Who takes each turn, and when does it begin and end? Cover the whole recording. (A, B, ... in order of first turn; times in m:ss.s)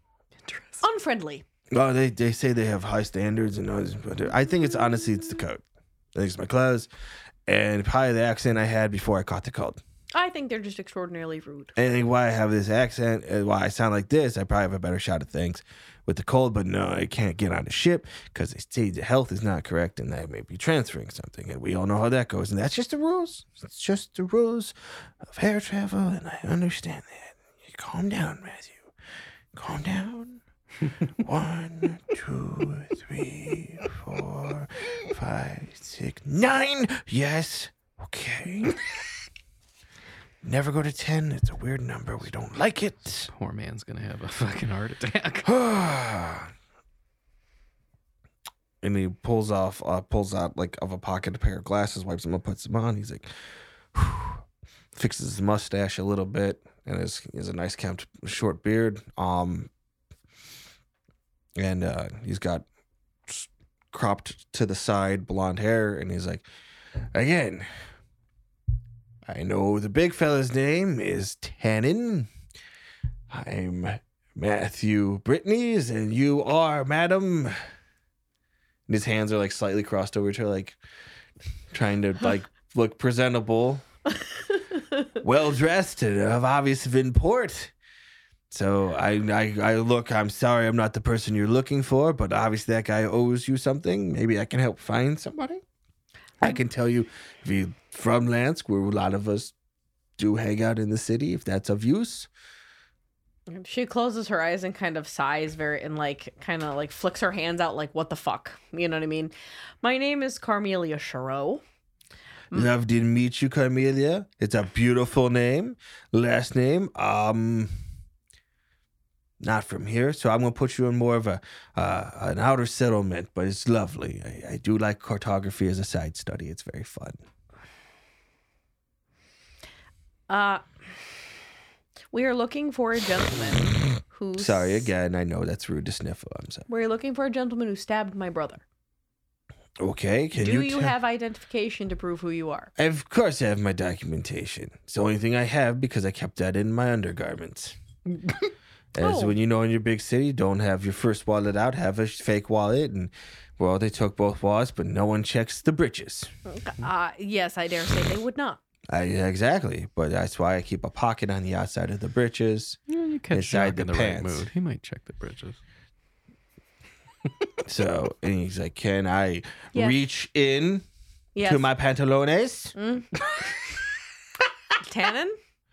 0:00.4-0:00.8 A
0:00.8-0:01.4 B
0:01.7-0:05.6 C
0:06.2-0:06.9 C
0:07.5-0:09.8 C
0:10.2-0:11.8 B
0:11.8-0:28.9 C
0:29.5-0:30.4 C
0:31.2-0:38.8 C
0:40.4-0:43.3 C
0:43.3-0:45.5 A
0:45.4-0:46.5 C
0:48.8-0:53.3 C
0:53.9-0:59.7 C
1:01.6-1:02.6 C
1:03.3-1:06.4 C
1:07.1-1:07.7 C
1:09.3-1:12.3 C
1:13.3-1:17.5 C
1:18.9-1:20.8 C
1:21.7-1:23.8 C
1:25.2-1:27.7 C
1:28.5-1:35.6 C
1:36.4-1:39.5 C
1:40.2-1:42.3 C
1:43.5-1:51.6 B
1:52.5-1:57.7 C
1:59.4-2:07.2 C
2:10.3-2:10.6 B
2:12.1-2:14.9 B
2:14.4-2:16.7 C
2:16.7-2:18.6 B
2:19.8-2:21.0 C
2:20.4-2:22.7 B
2:22.8-2:27.8 C
2:28.9-2:36.3 C
2:29.0-2:29.4 B
2:36.5-2:38.6 B
2:38.9-2:42.8 C
2:42.9-2:45.6 A
2:43.3-2:44.5 C
2:47.7-2:50.8 C
2:51.4-2:51.7 B
2:51.4-2:52.7 C
2:52.8-2:53.2 B
2:54.8-2:55.4 B